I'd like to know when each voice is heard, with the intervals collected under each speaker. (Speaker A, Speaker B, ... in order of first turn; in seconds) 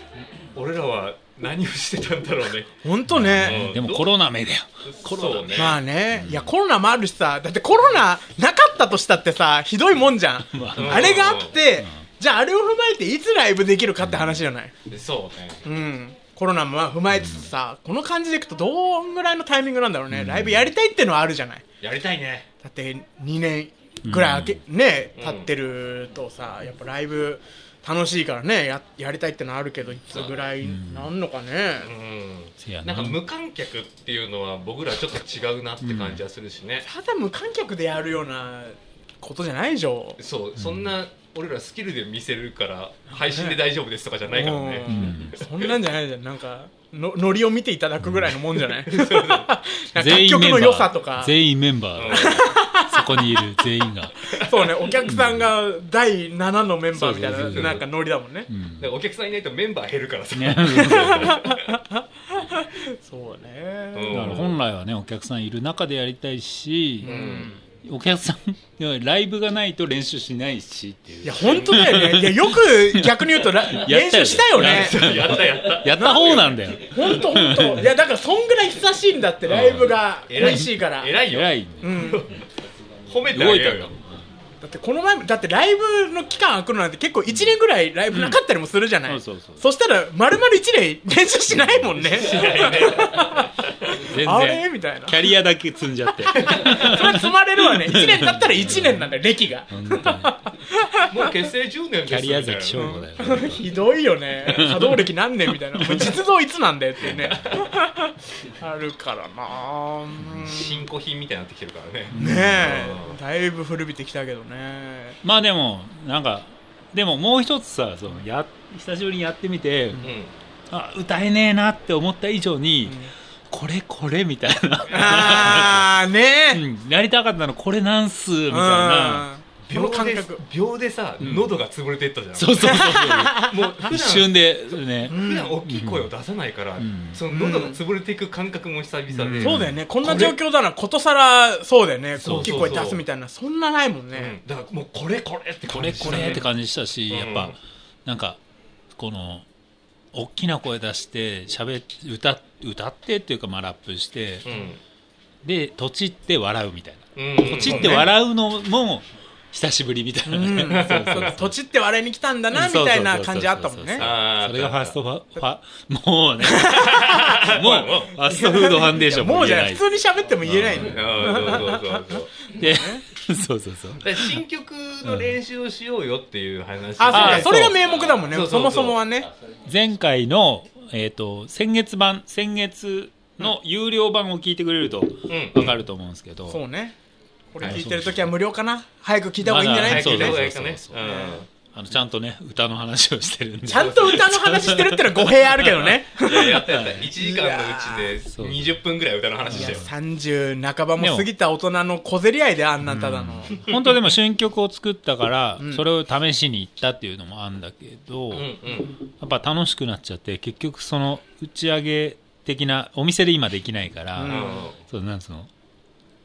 Speaker A: 0.5-2.7, 3.4-4.1, 4.9-5.8, 10.8-11.6, 14.9-15.6, 21.8-22.5, 25.2-25.5, 30.1-30.4, 31.8-36.9, 40.2-45.5, 48.7-49.5, 51.9-52.6, 57.5-57.9, 58.8-61.7, 63.9-64.6, 67.0-67.5, 71.3-72.1, 74.6-76.6, 80.3-82.4, 83.0-84.0, 92.0-93.5, 96.3-96.9, 101.1-103.0, 107.0-107.7, 110.4-113.2, 120.0-120.3, 129.7-140.4, 142.2-143.0, 144.1-146.5, 147.1-147.6, 154.4-154.8, 157.2-158.1, 160.6-161.4, 164.0-165.0, 166.7-168.2, 170.8-172.3, 174.0-179.0, 185.3-185.8, 189.8-191.5, 193.7-194.2, 196.2-199.8, 208.3-209.0, 214.2-214.8
Speaker B: 2.8-3.7, 5.5-14.7, 15.6-21.6, 22.6-31.9, 36.8-40.2, 43.1-43.6, 44.3-51.4, 52.1-53.4, 54.3-58.5, 61.0-64.4, 67.0-67.6, 71.2-75.1, 76.0-81.2, 81.8-82.3, 84.6-93.5, 94.1-95.2, 96.3-101.1, 102.7-110.8, 112.2-115.2, 122.8-123.1, 124.9-126.6, 128.5-130.4, 132.6-133.6, 135.1-135.5, 137.3-137.8, 139.4-144.4, 146.0-146.4, 157.6-158.1, 160.2-164.1, 166.4-167.4, 168.2-173.0, 177.0-179.3, 186.5-186.9, 187.5-190.4, 190.9-191.4, 193.7-198.1, 199.5-203.6, 205.6-205.8, 214.2-214.7
Speaker C: 3.1-6.5, 10.5-11.2, 14.0-14.4, 17.1-17.5, 20.1-20.7, 24.0-24.6, 30.6-31.1, 32.6-33.2, 35.8-36.2, 40.6-40.9, 44.9-45.4, 48.0-48.4, 49.9-54.2, 55.1-55.5, 56.9-57.8, 58.5-58.9, 60.3-61.4, 64.1-67.1, 67.8-77.9, 79.5-80.7, 81.2-82.2, 83.3-84.0, 87.3-87.5, 88.1-88.4, 89.0-89.6, 91.5-92.0, 94.0-99.1, 99.7-100.3, 102.1-103.7, 104.4-105.1, 105.7-106.2, 112.1-112.7, 115.2-120.0, 120.7-126.0, 126.5-129.3, 131.2-131.5, 132.3-136.1, 136.8-137.2, 139.1-139.8, 142.2-142.9, 145.7-148.4, 149.0-149.4, 150.1-154.5, 155.4-161.6, 162.5-169.9, 170.4-171.6, 172.6-174.3, 175.0-175.3, 177.1-177.8, 179.7-186.6, 187.6-188.3, 189.4-191.0, 191.7-195.9, 196.5-197.1, 198.3-198.8, 199.5-199.9, 201.0-201.3, 202.8-208.5, 209.2-215.5